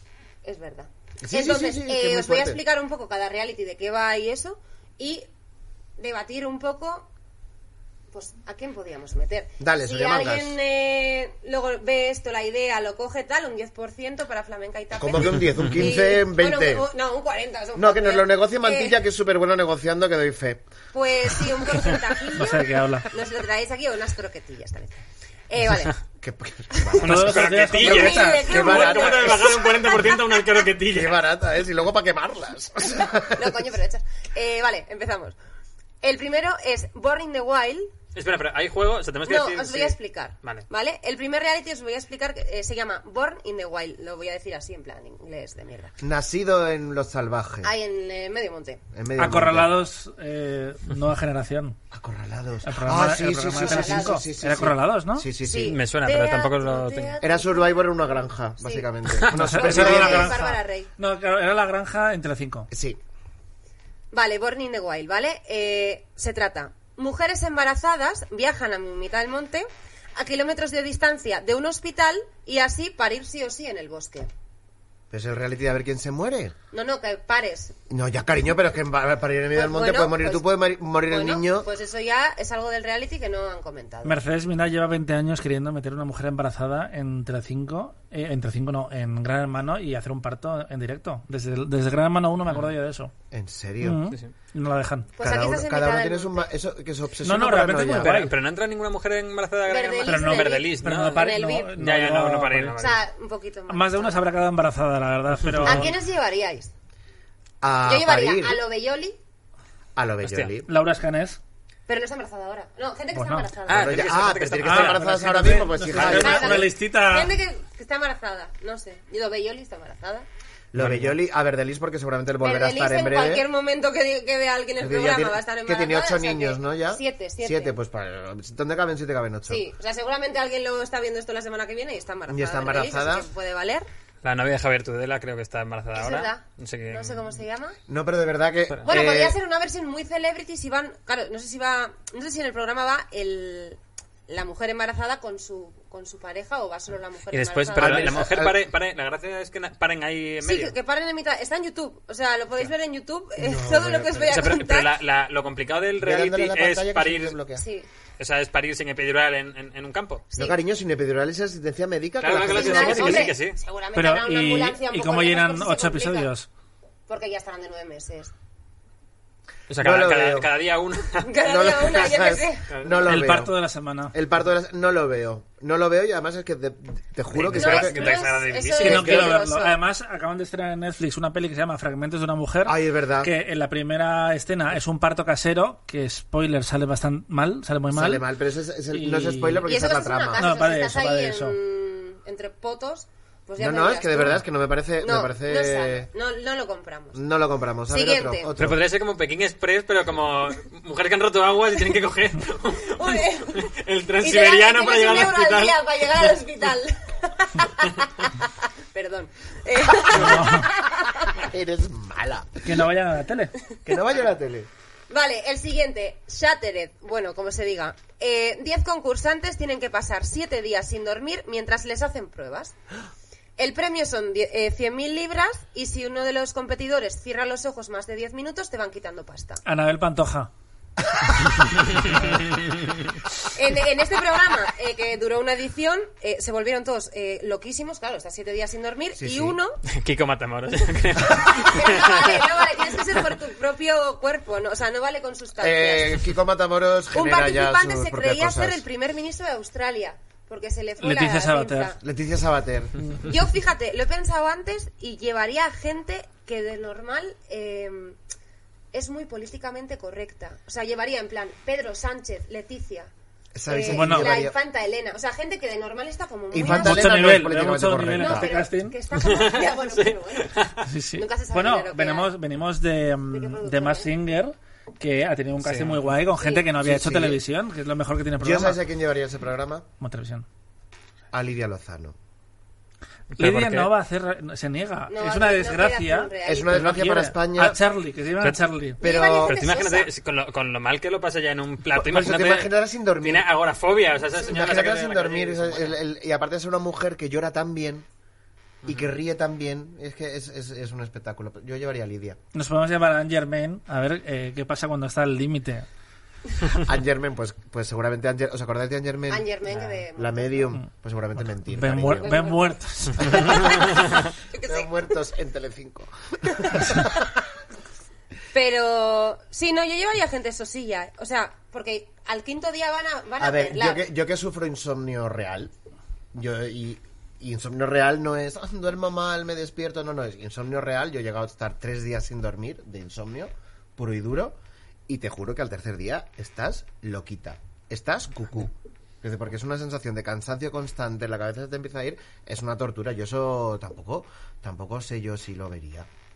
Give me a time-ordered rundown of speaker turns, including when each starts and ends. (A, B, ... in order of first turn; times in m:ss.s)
0:00.4-0:05.3 A
0:01.2-0:02.6 B
0:06.0-0:07.1 A
0:08.1-0:19.0 A
0:09.6-0:10.6 B
0:15.0-0:16.9 B
0:17.8-0:20.6 B
0:20.9-0:26.0 A
0:22.3-0:23.1 C
0:26.2-0:29.7 B
0:26.8-0:27.0 A
0:26.9-0:31.2 D
0:27.0-0:28.5 C
0:27.8-0:30.2 A
0:30.9-0:33.7 B
0:33.3-0:35.4 A
0:36.0-0:37.9 A
0:38.2-0:40.7 D
0:39.3-0:45.9 A
0:46.0-0:47.7 B
0:47.6-0:48.8 A
0:48.9-0:49.8 B
0:49.2-0:51.8 C
0:51.9-0:55.8 B
0:52.6-0:55.3 C
0:53.5-0:54.2 A
0:55.4-0:58.0 A
0:55.6-0:57.2 D
0:57.2-1:00.4 B
0:58.6-0:58.9 A
0:59.3-1:02.7 C
0:59.4-1:00.9 A
1:02.7-1:03.0 B
1:04.1-1:14.3 A
1:15.1-1:16.6 B
1:16.7-1:17.8 A
1:17.9-1:21.7 B
1:19.6-1:20.4 A
1:21.1-1:24.2 A
1:24.0-1:33.1 C
1:33.3-1:34.0 B
1:33.8-1:35.1 C
1:35.2-1:36.5 A
1:35.2-1:38.3 B
1:37.2-1:38.3 C
1:38.0-1:43.0 D
1:39.7-1:41.7 A
1:40.0-1:42.8 C
1:42.8-1:44.2 A
1:43.7-1:45.9 C
1:45.6-1:46.7 A
1:47.6-1:48.6 B
1:47.8-1:49.2 A
1:50.0-1:50.7 B
1:50.2-1:50.5 D
1:50.7-1:51.4 C
1:51.9-1:54.2 A
1:53.1-1:53.5 C
1:53.7-1:55.1 D
1:53.7-1:56.7 B
1:54.6-1:57.4 C
1:55.9-2:00.3 A
2:00.7-2:03.4 B
2:00.8-2:01.1 C
2:02.4-2:07.8 A
2:04.8-2:09.6 B
2:09.5-2:13.9 A
2:12.3-2:13.3 B
2:14.2-2:17.4 D
2:15.9-2:17.8 A
2:17.9-2:19.4 B
2:18.9-2:28.2 A
2:27.3-2:30.8 D
2:27.8-2:28.6 B
2:30.4-2:35.0 A
2:33.4-2:34.6 B
2:34.3-2:37.4 D
2:36.0-2:37.6 B
2:37.6-2:37.9 A
2:38.2-2:40.2 D
2:40.3-2:40.6 A
2:40.4-2:43.4 B
2:42.2-2:43.6 D
2:42.4-2:46.3 A
2:44.0-2:46.5 C
2:47.1-2:48.3 A
2:49.7-2:52.2 D
2:49.8-2:50.5 B
2:51.2-2:52.7 A
2:51.4-2:53.6 B
2:52.7-2:53.1 D
2:53.0-2:54.2 C
2:54.1-2:58.2 B
2:57.3-2:59.3 D
2:57.6-2:59.8 A
2:58.8-3:08.3 C
2:58.8-2:59.3 B
3:02.6-3:03.3 B
3:07.9-3:10.6 B
3:08.9-3:09.7 C
3:09.6-3:14.4 A
3:10.4-3:11.6 C
3:13.6-3:16.1 B
3:15.0-3:17.2 A
3:17.2-3:18.8 B
3:17.9-3:18.5 A
3:18.6-3:26.3 D
3:22.8-3:23.7 A
3:24.2-3:31.4 A
3:30.1-3:30.7 C
3:31.3-3:32.6 B
3:32.6-3:33.6 C
3:33.8-3:34.7 B
3:35.1-3:42.8 A
3:43.6-3:49.6 A
3:49.6-3:50.5 C
3:52.6-3:53.0 D
3:53.5-3:59.8 A
3:59.2-3:59.6 B
3:59.9-4:02.6 D
4:01.3-4:06.3 A
4:05.6-4:08.8 B
4:07.1-4:12.0 A
4:11.0-4:12.0 C
4:12.0-4:13.0 B
4:13.2-4:18.2 A
4:18.9-4:23.1 A
4:23.5-4:24.6 B
4:23.7-4:27.3 A
4:23.9-4:24.3 C
4:26.5-4:28.6 B
4:26.6-4:29.0 C
4:28.0-4:30.6 A
4:29.1-4:30.9 D
4:30.8-4:38.8 C
4:31.2-4:32.3 A
4:33.3-4:34.1 A
4:35.6-4:36.0 D
4:36.4-4:36.7 A
4:36.8-4:37.4 B
4:38.4-4:39.8 B
4:40.0-4:40.5 C
4:41.3-4:42.2 B
4:43.4-4:43.9 D
4:43.4-4:49.0 C
4:45.1-4:46.9 A
4:46.4-4:47.8 B
4:49.0-4:49.6 B
4:49.0-4:50.1 A
4:49.1-4:56.0 D
4:51.9-4:53.5 B
4:54.4-4:58.1 B
4:58.8-5:02.4 B
5:02.5-5:05.9 C
5:06.8-5:12.5 B
5:09.3-5:10.7 A
5:11.7-5:13.6 C
5:12.0-5:14.9 A
5:13.2-5:14.1 B
5:14.6-5:17.4 B
5:16.6-5:17.0 A
5:18.5-5:24.0 A
5:23.4-5:25.7 B
5:26.3-5:34.6 B
5:35.1-5:46.1 B